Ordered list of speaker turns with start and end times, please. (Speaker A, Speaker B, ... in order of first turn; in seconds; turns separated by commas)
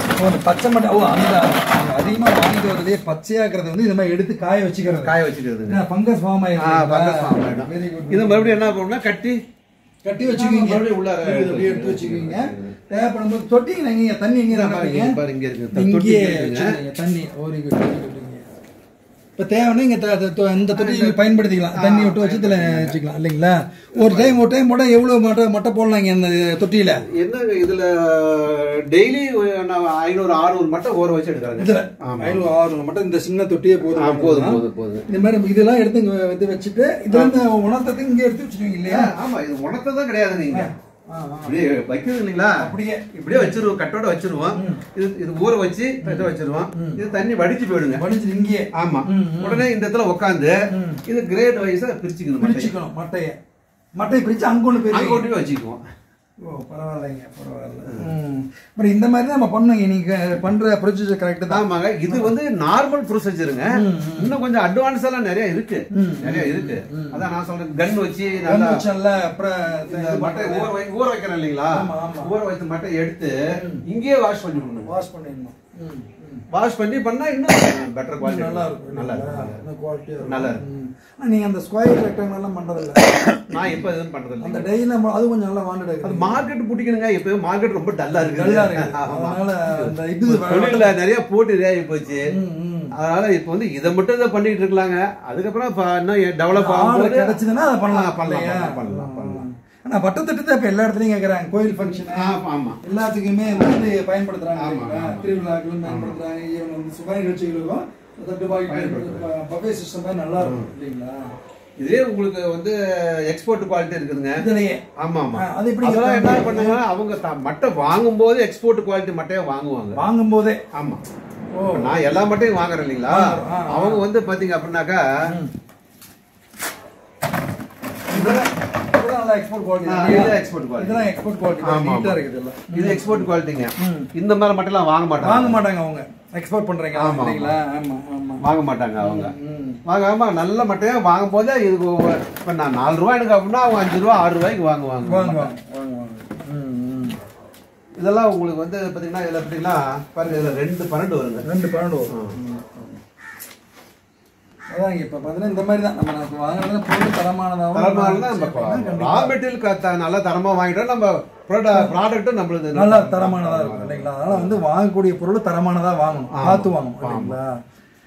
Speaker A: 0.2-5.1, Speaker B: 4.9-5.8, Speaker A: 5.7-8.7, Speaker B: 6.6-9.4, Speaker A: 10.0-15.2, Speaker B: 10.2-12.7, Speaker B: 14.5-16.8, Speaker A: 15.7-18.4, Speaker A: 19.4-27.0, Speaker B: 20.7-21.2, Speaker B: 21.7-22.9, Speaker B: 23.9-24.4, Speaker B: 27.1-32.5, Speaker A: 31.6-39.1, Speaker B: 33.9-35.0, Speaker B: 38.9-40.7, Speaker A: 40.5-41.6, Speaker B: 41.4-48.0, Speaker A: 42.6-43.6, Speaker A: 44.5-44.8, Speaker A: 46.0-47.0, Speaker A: 48.0-49.7, Speaker B: 48.7-50.5, Speaker A: 50.7-51.0, Speaker B: 51.1-52.7, Speaker A: 52.4-53.4, Speaker A: 54.0-55.2, Speaker B: 54.9-55.8, Speaker A: 56.5-62.3, Speaker B: 61.5-68.8, Speaker A: 63.8-64.3, Speaker A: 65.9-67.2, Speaker A: 68.5-70.7, Speaker B: 69.9-74.9, Speaker A: 71.7-72.3, Speaker A: 73.6-73.8, Speaker A: 74.8-76.4, Speaker B: 76.5-79.6, Speaker A: 78.2-83.0, Speaker B: 80.2-80.6, Speaker B: 83.5-84.7, Speaker A: 84.4-86.4, Speaker B: 86.0-92.2, Speaker A: 88.2-90.9, Speaker A: 92.3-92.9, Speaker B: 93.0-99.4, Speaker A: 96.5-111.2, Speaker B: 101.8-102.8, Speaker B: 103.5-103.9, Speaker B: 104.5-105.2, Speaker B: 105.8-106.2, Speaker B: 108.7-109.3, Speaker B: 110.4-110.7, Speaker B: 111.8-114.4, Speaker A: 114.4-114.8, Speaker B: 115.0-120.0, Speaker A: 115.3-116.8, Speaker A: 120.0-120.6, Speaker B: 120.7-121.0, Speaker A: 121.5-121.9, Speaker B: 121.7-125.0, Speaker A: 123.1-124.0, Speaker A: 128.1-134.1, Speaker B: 128.1-128.4, Speaker B: 129.8-131.1, Speaker B: 131.6-132.2, Speaker B: 132.7-135.6, Speaker A: 135.2-138.4, Speaker B: 136.9-137.6, Speaker B: 138.4-139.3, Speaker A: 139.0-139.8, Speaker B: 139.8-145.5, Speaker A: 145.0-147.2, Speaker B: 148.0-151.4, Speaker A: 151.4-153.0, Speaker B: 152.1-152.3, Speaker A: 154.7-159.3, Speaker B: 157.7-164.6, Speaker A: 162.7-167.5, Speaker B: 166.3-167.4